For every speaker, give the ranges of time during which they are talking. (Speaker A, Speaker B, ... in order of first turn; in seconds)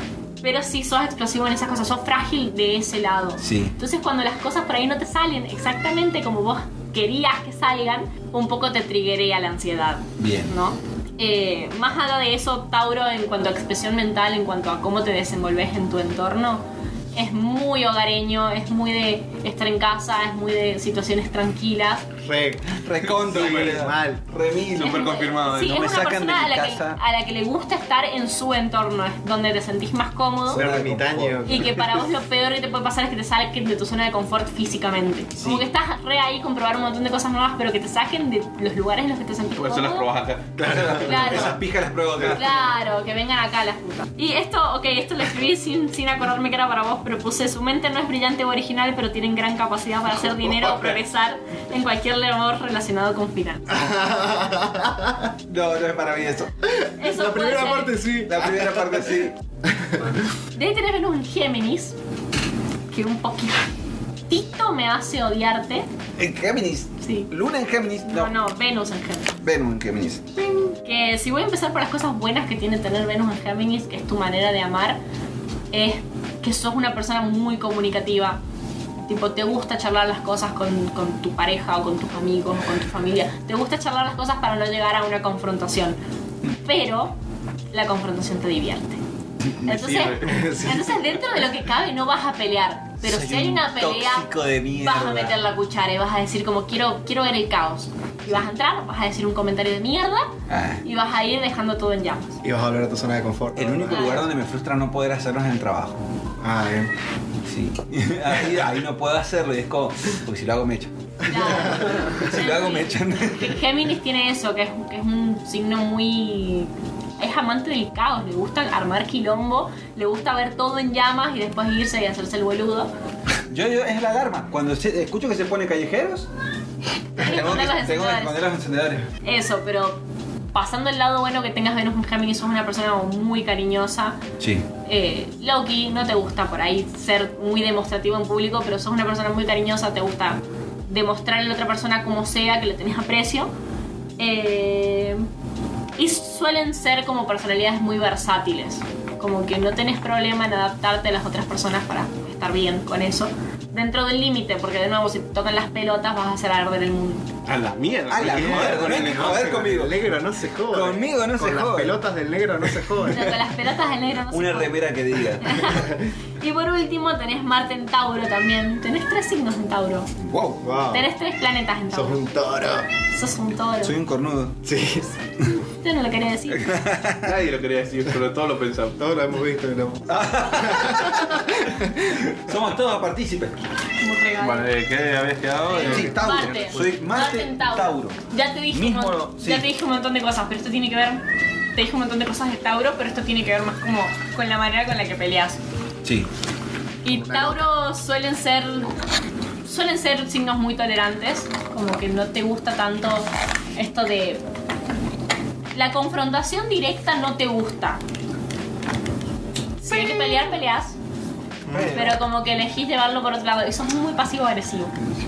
Speaker A: 0.4-22.1, 24.8-30.6, 31.4-40.1, 40.9-41.6, 42.3-53.9, 57.0-58.0, 60.5-62.0, 62.9-63.7, 64.3-65.9, 67.0-67.3, 68.0-69.3, 70.4-75.0, 75.7-78.4, 79.0-87.2, 87.7-89.0, 89.6-100.3, 100.8-102.4, 103.9-104.3, 111.2-122.9, 127.2-128.3, 129.2-130.0, 130.5-134.2, 134.8-143.5, 144.2-145.2, 146.0-157.3, 163.1-164.8, 165.4-170.1, 170.9-172.2, 173.1-173.9, 175.6-176.7, 184.0-184.7, 185.7-191.2, 191.7-195.6, 197.0-198.9, 199.6-204.4, 205.7-208.0, 209.8-210.9, 211.9-214.9
Speaker B: 3.4-3.7, 10.2-10.5, 22.8-27.0, 30.5-31.7, 35.4-35.6, 40.6-42.6, 55.5-56.5, 58.2-59.4, 66.2-68.3, 69.4-70.2, 89.8-90.2, 93.0-95.4, 100.5-100.8, 103.5-106.0, 107.4-113.6, 123.5-126.3, 127.2-129.1, 134.4-134.6, 158.1-160.0, 160.7-162.0, 164.3-165.9, 170.2-170.6, 173.8-174.6, 176.5-177.3, 180.1-183.6, 185.8-188.2, 188.7-189.7, 196.0-196.3, 211.7-212.2
Speaker C: 22.2-24.2, 30.5-31.9, 53.7-55.3, 56.6-60.2, 90.2-91.0, 102.4-104.2, 106.4-106.9, 111.3-112.1, 158.2-163.3, 170.6-171.1, 171.9-172.9, 174.6-175.1, 179.0-182.2, 185.8-186.1, 197.1-197.6, 211.7-212.1
Speaker D: 23.2-23.9, 24.8-25.7, 39.6-41.6, 42.2-42.4, 89.7-90.5, 157.4-159.5, 177.2-179.0, 184.4-186.9